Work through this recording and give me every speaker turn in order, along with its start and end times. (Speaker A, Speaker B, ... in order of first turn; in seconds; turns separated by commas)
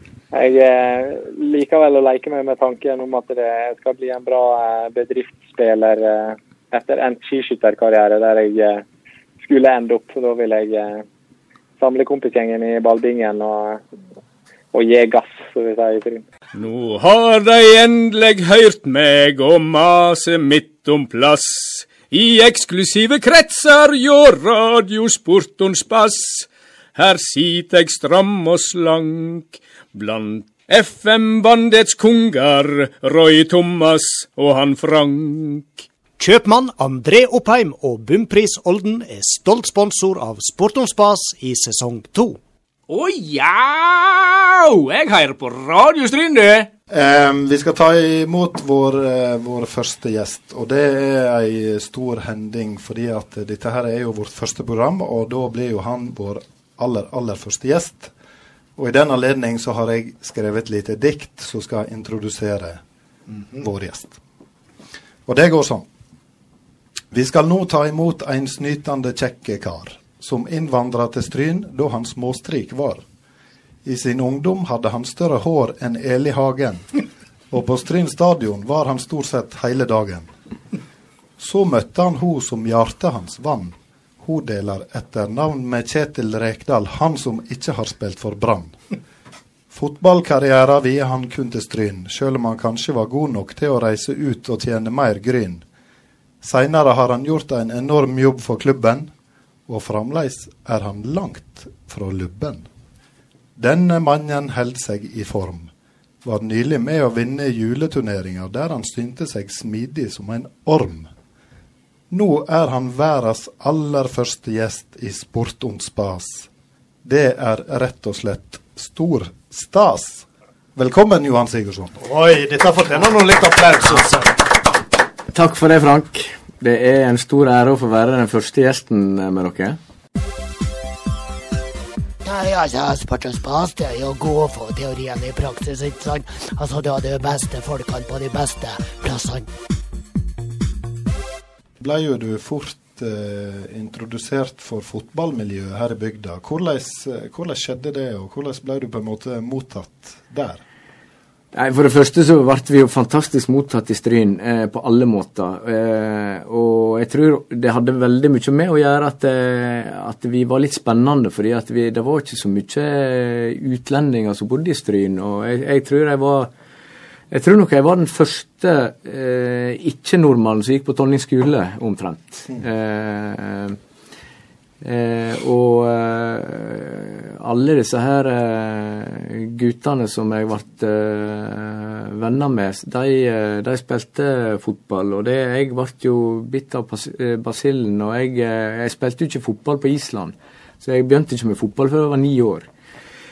Speaker A: 0.3-8.8, Speaker A: 9.4-11.1, Speaker A: 11.8-13.9, Speaker A: 14.7-16.2, Speaker B: 16.5-35.9, Speaker C: 36.3-42.3, Speaker B: 42.9-46.7, Speaker D: 46.9-58.1, Speaker D: 58.8-62.8, Speaker D: 63.5-64.2, Speaker D: 65.3-65.9, Speaker D: 67.1-73.0, Speaker D: 73.8-76.9, Speaker D: 77.5-80.3, Speaker D: 81.4-88.8, Speaker D: 89.7-95.6, Speaker D: 96.4-99.1, Speaker D: 99.7-102.7, Speaker D: 103.6-105.7, Speaker D: 106.2-111.1, Speaker D: 112.1-116.5, Speaker D: 117.0-122.0, Speaker C: 122.0-124.4, Speaker E: 125.3-129.8, Speaker F: 132.2-139.5, Speaker D: 141.8-150.6, Speaker E: 151.5-166.5, Speaker E: 167.3-173.8, Speaker E: 174.8-192.7